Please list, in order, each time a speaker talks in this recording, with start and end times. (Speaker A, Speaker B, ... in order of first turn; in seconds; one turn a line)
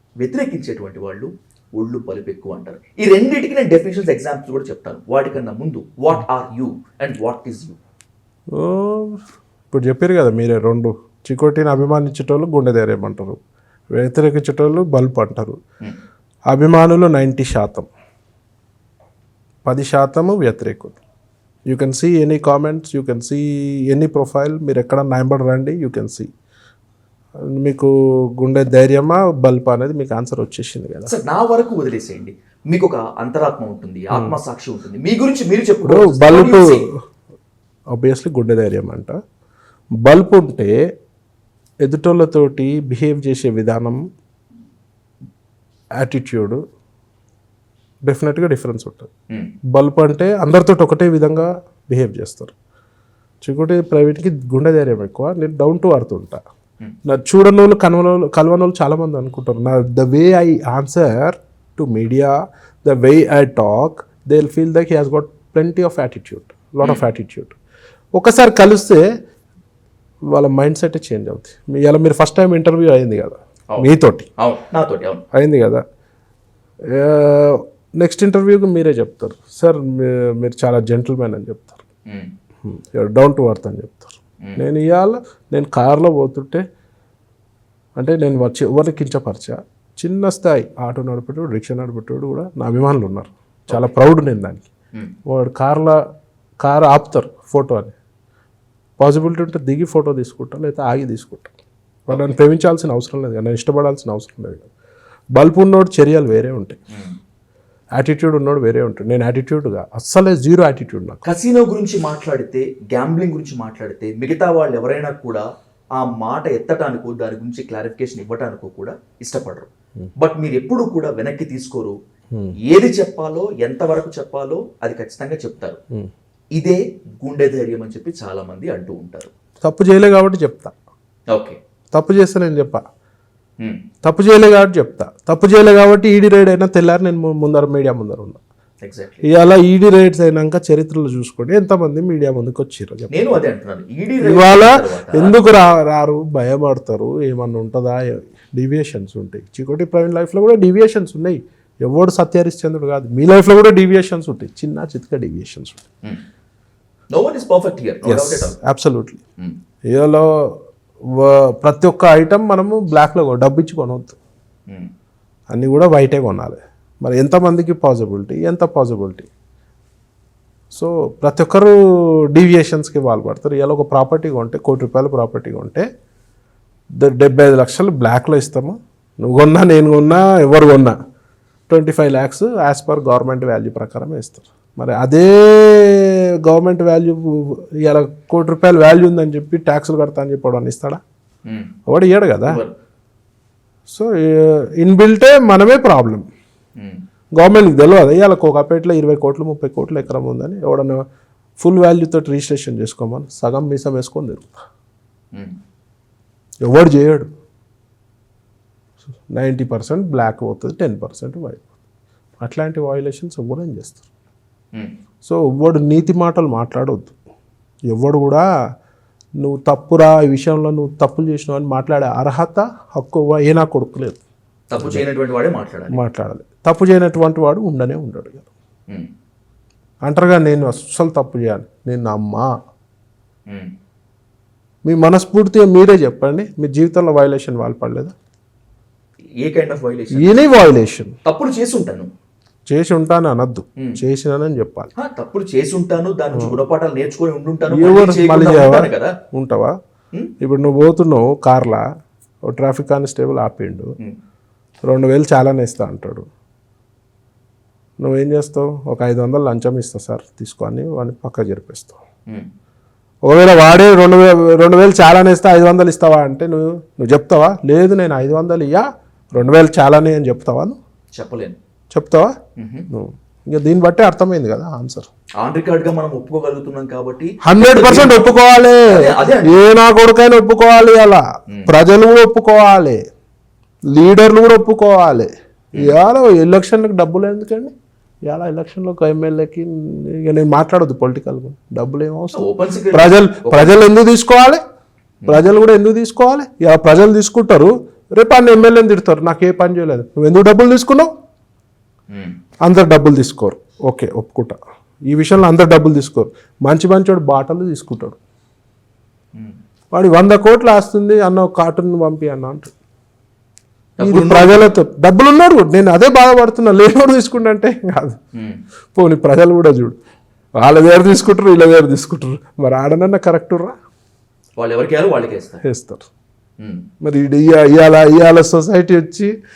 Speaker A: 0.2-7.8
Speaker B: 8.5-13.4
Speaker B: 13.9-15.6
Speaker B: 16.5-17.9
Speaker B: 19.6-21.0
Speaker B: 21.7-26.3
Speaker B: 27.5-31.1
Speaker A: 31.1-36.9
Speaker B: 35.9-36.7
Speaker B: 37.9-39.2
Speaker B: 40.0-40.7
Speaker B: 41.8-44.0
Speaker B: 46.0-46.6
Speaker B: 48.0-49.1
Speaker B: 49.7-52.5
Speaker B: 53.4-56.4
Speaker B: 57.0-67.5
Speaker B: 68.2-69.0
Speaker B: 70.3-74.3
Speaker A: 73.7-75.2
Speaker B: 75.3-75.8
Speaker B: 76.9-81.8
Speaker B: 82.6-86.6
Speaker B: 88.0-94.7
Speaker A: 93.7-93.9
Speaker B: 95.3-96.0
Speaker B: 96.6-97.9
Speaker B: 99.0-101.5
Speaker B: 102.1-104.7
Speaker A: 102.1-102.3
Speaker B: 105.3-106.8
Speaker A: 106.9-107.2
Speaker B: 107.9-111.2
Speaker A: 111.2-115.4
Speaker A: 116.0-121.9
Speaker A: 122.7-125.8
Speaker A: 126.5-129.3
Speaker B: 129.6-130.7
Speaker A: 131.3-131.6
Speaker B: 131.9-132.8
Speaker B: 134.0-138.4
Speaker A: 138.8-139.2
Speaker B: 139.3-143.4
Speaker A: 143.1-145.4
Speaker B: 144.2-155.9
Speaker A: 157.1-158.6
Speaker B: 158.1-159.2
Speaker B: 159.9-164.2
Speaker B: 165.5-169.3
Speaker B: 170.7-175.9
Speaker B: 177.0-180.9
Speaker B: 181.7-191.0
Speaker A: 191.5-191.7
Speaker B: 191.9-192.6
Speaker A: 192.5-192.7
Speaker B: 193.9-196.2
Speaker A: 196.8-197.0
Speaker B: 197.3-201.1
Speaker B: 201.6-204.6
Speaker B: 206.6-207.3
Speaker B: 209.3-211.7
Speaker B: 212.4-214.0
Speaker B: 215.2-217.2
Speaker B: 217.9-218.4
Speaker B: 219.4-224.2
Speaker A: 224.7-226.0
Speaker B: 224.8-225.0
Speaker B: 225.9-228.5
Speaker B: 230.1-232.5
Speaker B: 234.8-238.2
Speaker A: 239.4-240.5
Speaker B: 240.2-241.1
Speaker A: 241.2-242.1
Speaker B: 242.7-244.9
Speaker A: 245.0-249.1
Speaker B: 247.7-249.8
Speaker B: 250.4-251.8
Speaker B: 252.4-253.9
Speaker B: 254.9-256.2
Speaker B: 258.0-262.0
Speaker B: 263.2-270.8
Speaker A: 271.1-271.6
Speaker B: 271.9-272.4
Speaker A: 272.6-272.9
Speaker B: 272.9-275.1
Speaker A: 275.4-278.3
Speaker B: 277.4-283.0
Speaker A: 278.9-279.6
Speaker B: 283.9-287.7
Speaker B: 288.2-294.6
Speaker A: 292.3-293.8
Speaker B: 295.3-301.1
Speaker A: 302.1-302.4
Speaker B: 302.6-304.6
Speaker B: 305.1-308.2
Speaker B: 309.9-312.7
Speaker A: 314.0-314.8
Speaker B: 314.0-318.2
Speaker A: 318.4-318.6
Speaker B: 318.9-320.0
Speaker B: 320.6-323.7
Speaker A: 324.6-325.6
Speaker B: 325.6-326.0
Speaker A: 326.6-326.9
Speaker B: 327.0-329.3